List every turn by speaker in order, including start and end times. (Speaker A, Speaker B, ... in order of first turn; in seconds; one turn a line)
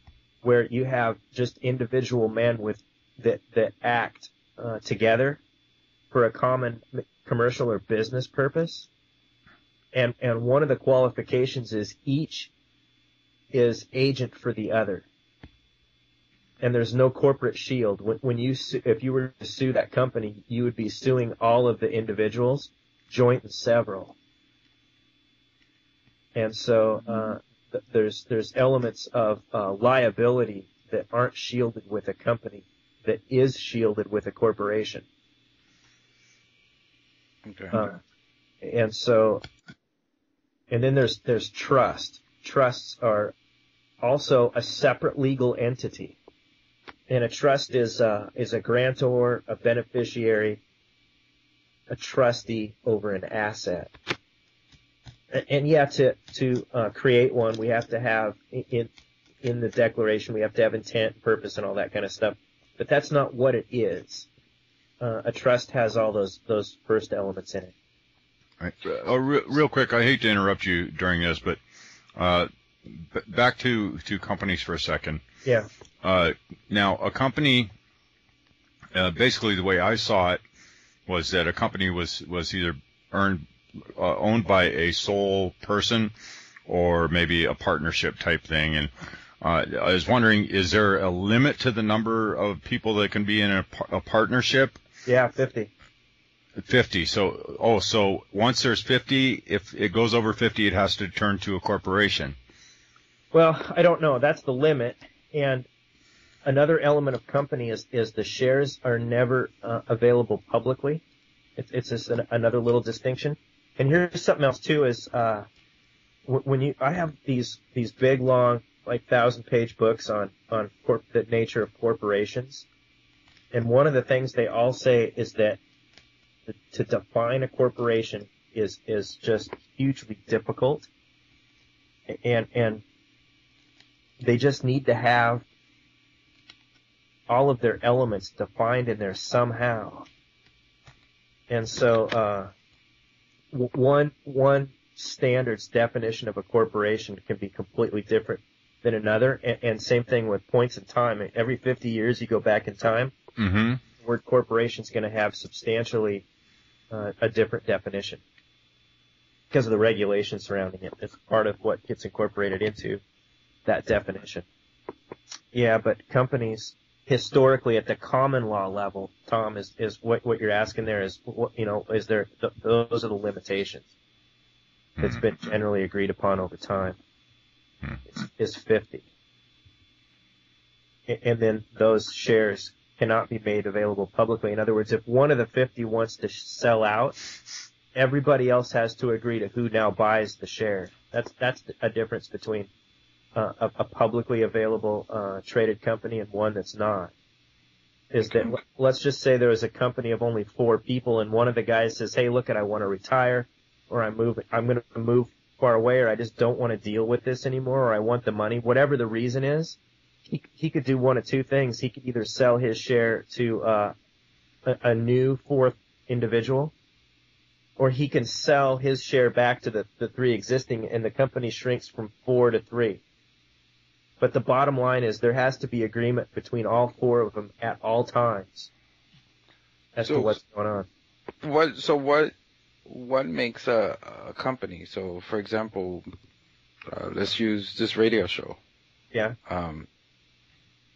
Speaker A: 0.4-5.4
Speaker A: 6.1-8.9
Speaker A: 9.9-12.5
Speaker A: 13.5-15.1
Speaker A: 16.6-24.1
Speaker A: 26.3-35.0
Speaker B: 37.4-37.8
Speaker A: 37.7-38.0
Speaker A: 38.6-39.4
Speaker A: 40.7-43.3
Speaker A: 44.0-46.2
Speaker A: 47.1-50.6
Speaker A: 51.9-53.9
Speaker A: 55.3-58.9
Speaker A: 59.4-64.3
Speaker A: 65.0-67.7
Speaker C: 68.6-71.6
Speaker C: 72.2-75.2
Speaker C: 76.0-77.7
Speaker C: 78.9-80.4
Speaker C: 81.1-86.1
Speaker C: 86.7-94.8
Speaker A: 95.0-95.7
Speaker C: 96.6-102.3
Speaker A: 103.3-105.7
Speaker A: 106.4-111.0
Speaker A: 111.6-115.5
Speaker A: 116.3-122.7
Speaker A: 123.5-125.6
Speaker A: 126.5-130.9
Speaker A: 132.1-132.8
Speaker A: 134.2-135.4
Speaker A: 137.3-140.1
Speaker A: 141.5-142.5
Speaker A: 143.5-153.1
Speaker C: 153.4-153.8
Speaker A: 154.0-156.2
Speaker A: 156.9-158.2
Speaker A: 159.5-163.0
Speaker A: 163.7-164.4
Speaker A: 165.5-173.8
Speaker C: 175.0-175.3
Speaker A: 175.0-177.0
Speaker A: 178.1-179.1
Speaker A: 181.1-187.2
Speaker A: 187.9-192.7
Speaker A: 193.3-197.1
Speaker A: 198.1-213.9
Speaker A: 214.6-216.7
Speaker A: 217.8-223.0
Speaker A: 224.2-228.7
Speaker A: 229.9-230.9
Speaker B: 230.0-230.3
Speaker B: 231.4-232.3
Speaker B: 232.8-236.1
Speaker B: 236.9-238.6
Speaker B: 239.5-239.9